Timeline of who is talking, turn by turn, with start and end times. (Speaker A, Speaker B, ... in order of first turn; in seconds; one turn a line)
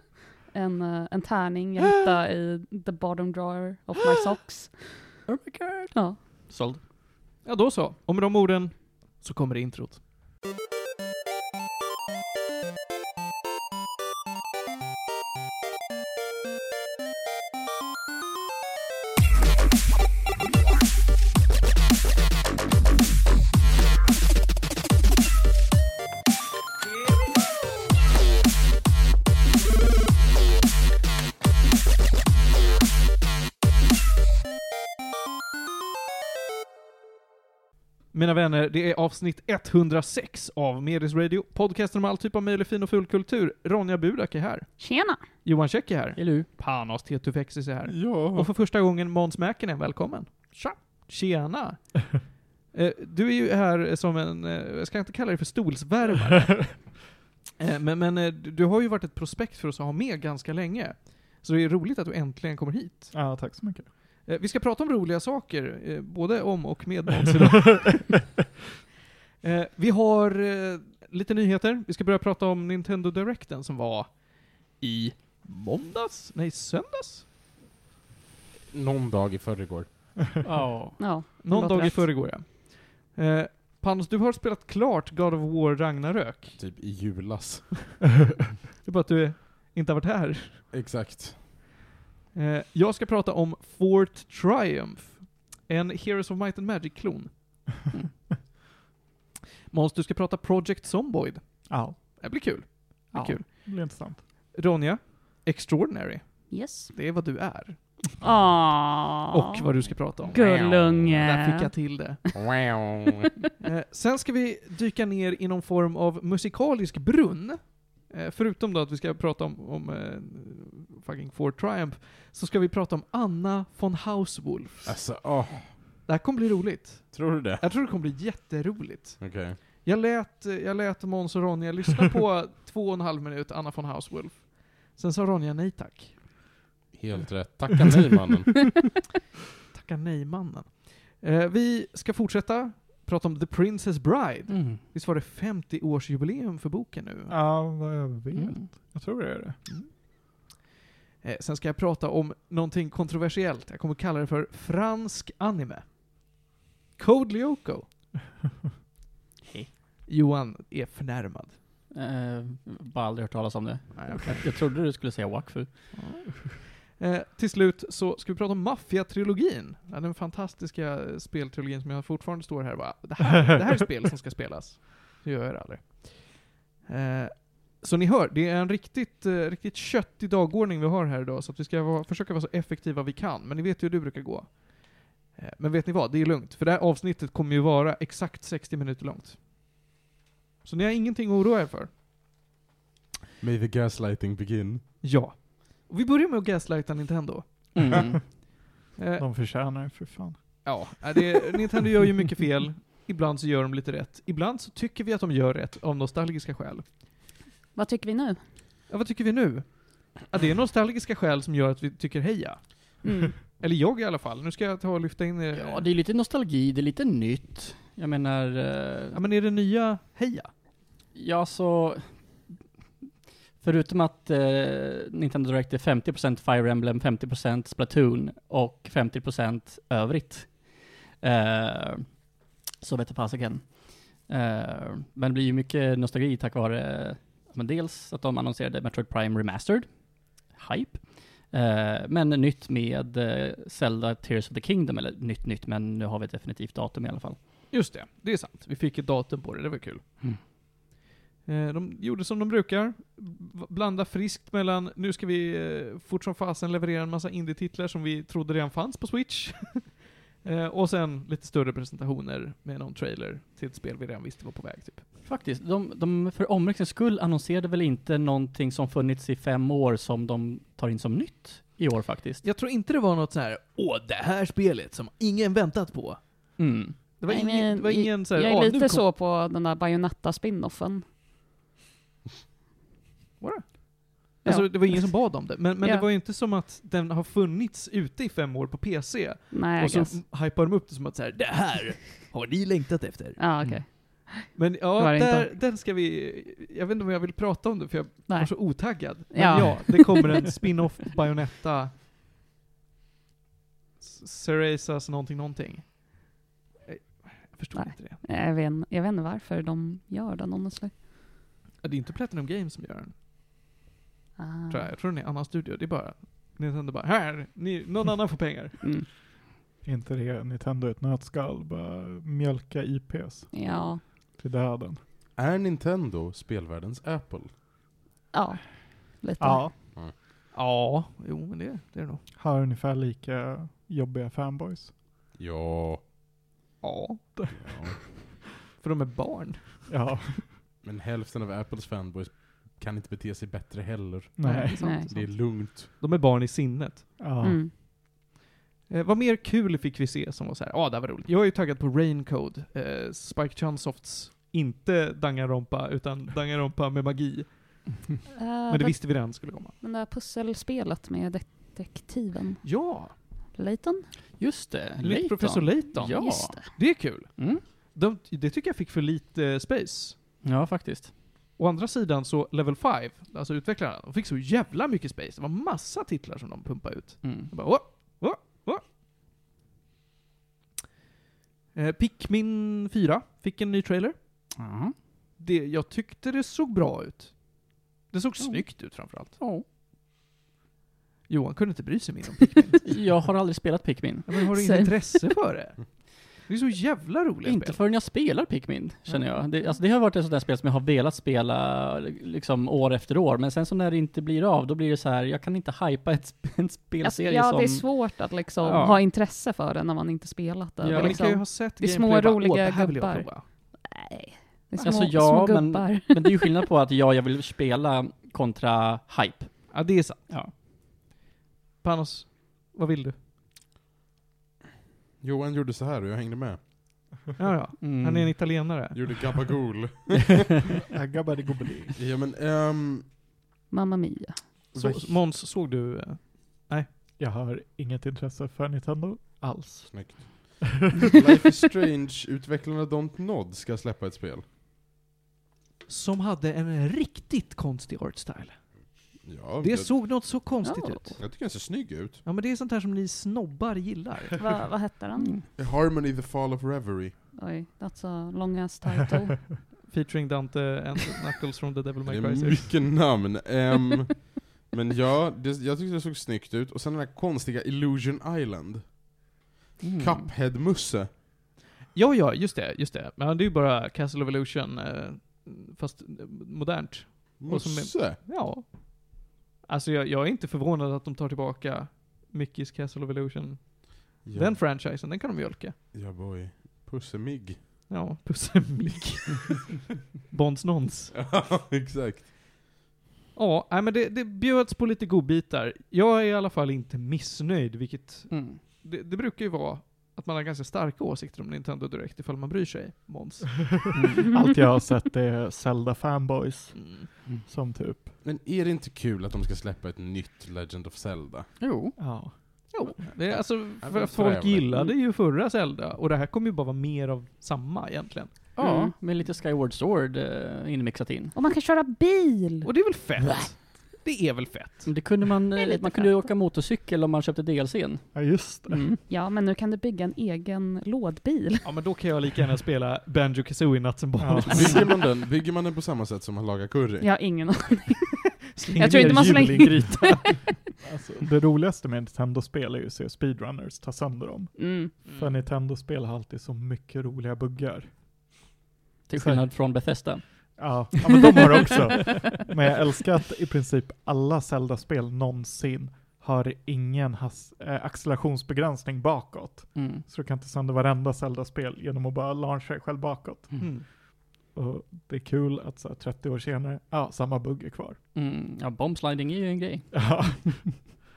Speaker A: 0.5-5.2
Speaker B: 5.3-6.8
Speaker A: 5.9-6.2
Speaker C: 7.4-10.0
Speaker C: 38.1-63.5
Speaker A: 44.8-45.4
Speaker B: 46.1-46.5
Speaker D: 47.9-48.5
Speaker E: 63.1-63.9
Speaker C: 64.2-68.3
Speaker C: 69.4-77.2
Speaker D: 78.7-80.1
Speaker B: 80.4-81.2
Speaker A: 81.0-82.3
Speaker C: 81.4-86.6
Speaker D: 86.6-88.0
Speaker C: 88.8-90.6
Speaker D: 90.7-91.4
Speaker C: 92.3-97.7
Speaker C: 99.7-108.0
Speaker E: 101.7-102.5
Speaker E: 103.1-104.2
Speaker A: 106.5-106.9
Speaker A: 108.2-109.7
Speaker C: 109.3-110.4
Speaker A: 110.3-112.3
Speaker D: 110.4-111.2
Speaker C: 111.2-112.2
Speaker D: 112.3-113.0
Speaker C: 113.6-124.9
Speaker D: 124.8-125.8
Speaker C: 126.0-136.5
Speaker D: 127.1-127.6
Speaker D: 129.2-129.6
Speaker D: 136.9-138.8
Speaker C: 139.7-147.3
Speaker B: 144.5-144.8
Speaker E: 147.3-149.6
Speaker B: 148.3-148.7
Speaker C: 151.2-156.3
Speaker C: 156.9-157.9
Speaker B: 159.5-159.7
Speaker C: 160.1-161.6
Speaker B: 161.9-166.3
Speaker C: 163.9-164.4
Speaker C: 165.9-189.4
Speaker C: 190.6-191.9
Speaker D: 193.4-194.8
Speaker C: 195.0-198.2
Speaker B: 197.7-198.3
Speaker C: 198.9-199.2
Speaker E: 199.2-201.2
Speaker C: 200.6-207.0
Speaker A: 207.7-208.4
Speaker C: 208.9-215.9
Speaker A: 213.0-213.3
Speaker B: 215.5-219.2
Speaker C: 219.1-220.5
Speaker B: 221.1-222.6
Speaker B: 223.6-247.4
Speaker C: 247.7-250.5
Speaker C: 251.4-265.0
Speaker B: 265.2-272.4
Speaker C: 272.4-279.1
Speaker B: 276.6-277.1
Speaker A: 277.3-281.1
Speaker C: 283.4-293.8
Speaker A: 284.4-286.1
Speaker A: 289.5-290.2
Speaker A: 293.4-295.5
Speaker C: 294.5-301.9
Speaker A: 298.3-300.5
Speaker C: 304.0-308.2
Speaker A: 307.7-311.0
Speaker C: 311.8-313.1
Speaker A: 314.4-314.9
Speaker C: 314.7-318.8
Speaker A: 318.8-319.1
Speaker E: 319.8-325.0
Speaker A: 323.5-324.0
Speaker D: 325.4-327.6
Speaker A: 328.3-329.8
Speaker E: 329.4-329.7
Speaker C: 330.5-332.2
Speaker E: 332.4-334.9
Speaker D: 335.4-336.0
Speaker C: 336.8-337.6
Speaker E: 337.4-338.1
Speaker D: 337.6-338.0
Speaker C: 338.7-339.9
Speaker E: 339.9-340.6
Speaker D: 340.8-345.9
Speaker E: 344.4-344.8
Speaker C: 344.4-347.2
Speaker A: 344.7-345.1
Speaker E: 347.2-347.6
Speaker A: 347.4-347.7
Speaker C: 348.9-358.0
Speaker A: 358.4-364.1
Speaker C: 358.7-359.7
Speaker C: 362.6-363.1
Speaker B: 364.4-367.6
Speaker C: 365.0-370.2
Speaker A: 366.0-366.9
Speaker B: 370.4-371.1
Speaker C: 371.6-378.8
Speaker B: 377.2-377.5
Speaker C: 381.7-384.5
Speaker B: 384.6-384.9
Speaker C: 385.4-389.4
Speaker B: 388.4-389.6
Speaker C: 391.3-392.9
Speaker B: 392.9-394.5
Speaker C: 394.2-397.8
Speaker A: 394.5-395.4
Speaker B: 397.4-409.0
Speaker C: 399.1-399.3
Speaker A: 399.5-399.8
Speaker A: 407.0-416.5
Speaker B: 410.8-411.3
Speaker C: 410.9-413.4
Speaker B: 414.8-420.5
Speaker C: 419.7-420.3
Speaker C: 421.8-423.1
Speaker D: 425.2-427.1
Speaker C: 427.4-429.4
Speaker B: 427.8-428.6
Speaker D: 428.9-430.6
Speaker E: 430.9-432.0
Speaker D: 431.9-433.1
Speaker A: 433.7-434.7
Speaker C: 434.7-436.9
Speaker E: 434.7-435.2
Speaker E: 437.2-440.5
Speaker D: 439.9-444.4
Speaker C: 445.9-451.6
Speaker D: 449.2-450.5
Speaker A: 450.6-451.2
Speaker D: 451.2-452.2
Speaker C: 452.2-454.4
Speaker A: 454.4-455.4
Speaker B: 455.2-455.4
Speaker D: 455.5-457.2
Speaker A: 457.3-459.5
Speaker C: 459.8-462.7
Speaker D: 462.1-469.3
Speaker B: 469.8-470.3
Speaker D: 470.0-471.1
Speaker C: 471.9-485.8
Speaker D: 477.4-478.2
Speaker D: 484.2-484.6
Speaker D: 485.9-487.6
Speaker C: 487.9-489.7
Speaker C: 490.3-491.1
Speaker D: 491.1-492.3
Speaker C: 493.3-503.9
Speaker B: 498.3-498.6
Speaker B: 503.9-504.2
Speaker A: 504.2-504.7
Speaker E: 504.3-508.1
Speaker C: 506.7-507.1
Speaker D: 508.2-511.6
Speaker B: 511.6-512.4
Speaker E: 511.9-512.9
Speaker C: 512.7-518.8
Speaker D: 513.2-514.7
Speaker B: 518.5-521.4
Speaker A: 521.3-522.9
Speaker C: 522.6-525.1
Speaker B: 524.8-529.0
Speaker A: 525.6-526.3
Speaker E: 528.1-528.9
Speaker A: 528.8-531.7
Speaker C: 531.6-535.0
Speaker E: 534.2-534.8
Speaker D: 534.5-537.3
Speaker A: 537.0-540.5
Speaker C: 538.5-540.4
Speaker E: 539.5-540.2
Speaker E: 540.8-548.4
Speaker A: 544.5-545.0
Speaker C: 545.0-545.4
Speaker B: 549.1-551.7
Speaker E: 549.1-550.0
Speaker E: 550.6-564.0
Speaker B: 559.7-560.0
Speaker C: 563.6-563.9
Speaker E: 564.5-568.0
Speaker B: 568.1-570.4
Speaker E: 569.9-570.9